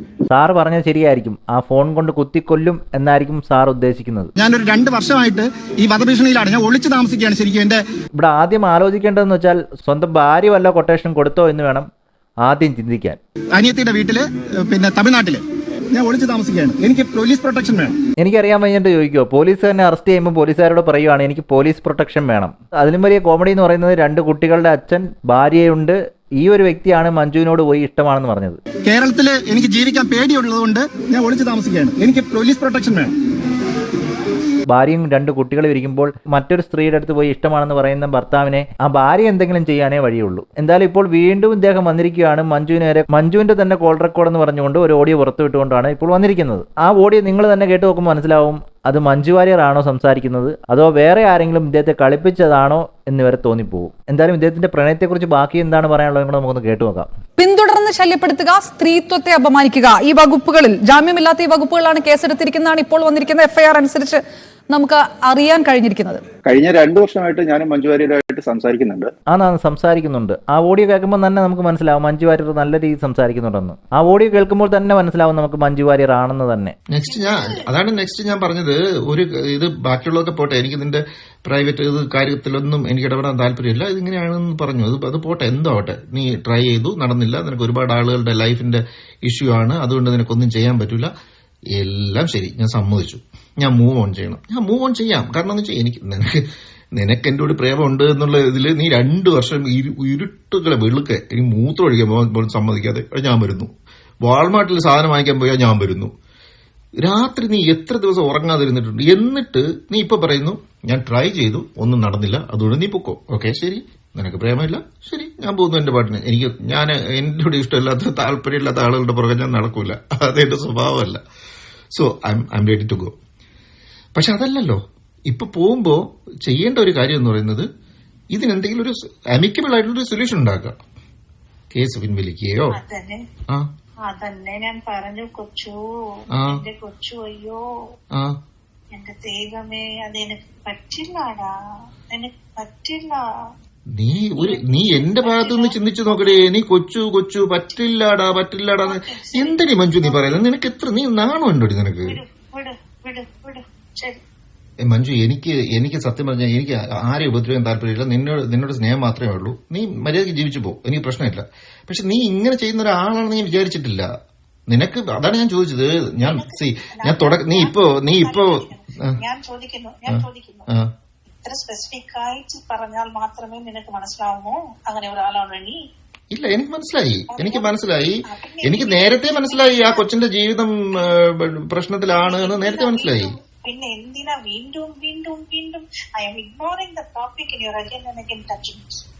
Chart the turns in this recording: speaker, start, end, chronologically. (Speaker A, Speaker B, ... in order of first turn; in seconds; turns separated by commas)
Speaker A: 0.3-4.3, Speaker B: 4.4-7.8, Speaker A: 8.2-11.9, Speaker A: 12.4-13.2, Speaker B: 13.6-15.4, Speaker B: 15.9-17.9, Speaker A: 18.2-28.6, Speaker B: 28.9-33.1, Speaker A: 34.7-57.1, Speaker C: 57.4-66.2, Speaker D: 66.5-69.1, Speaker A: 69.3-76.7, Speaker E: 76.9-91.1, Speaker F: 77.0-77.7, Speaker E: 91.8-96.4, Speaker E: 97.0-103.7, Speaker E: 104.2-106.1, Speaker E: 107.0-121.2, Speaker E: 121.9-123.1, Speaker E: 124.2-127.7, Speaker E: 128.3-130.8, Speaker E: 131.7-132.8, Speaker F: 132.7-133.2, Speaker F: 134.1-137.6, Speaker E: 136.4-136.6, Speaker F: 138.9-141.5, Speaker F: 142.1-143.2, Speaker E: 144.0-152.2, Speaker F: 144.3-146.5, Speaker F: 148.8-150.4, Speaker F: 152.0-154.2, Speaker E: 154.9-164.1, Speaker E: 164.7-168.6, Speaker F: 166.2-170.7, Speaker E: 170.1-170.9, Speaker F: 171.4-175.8, Speaker E: 176.3-183.3, Speaker F: 177.3-180.1, Speaker F: 182.1-189.0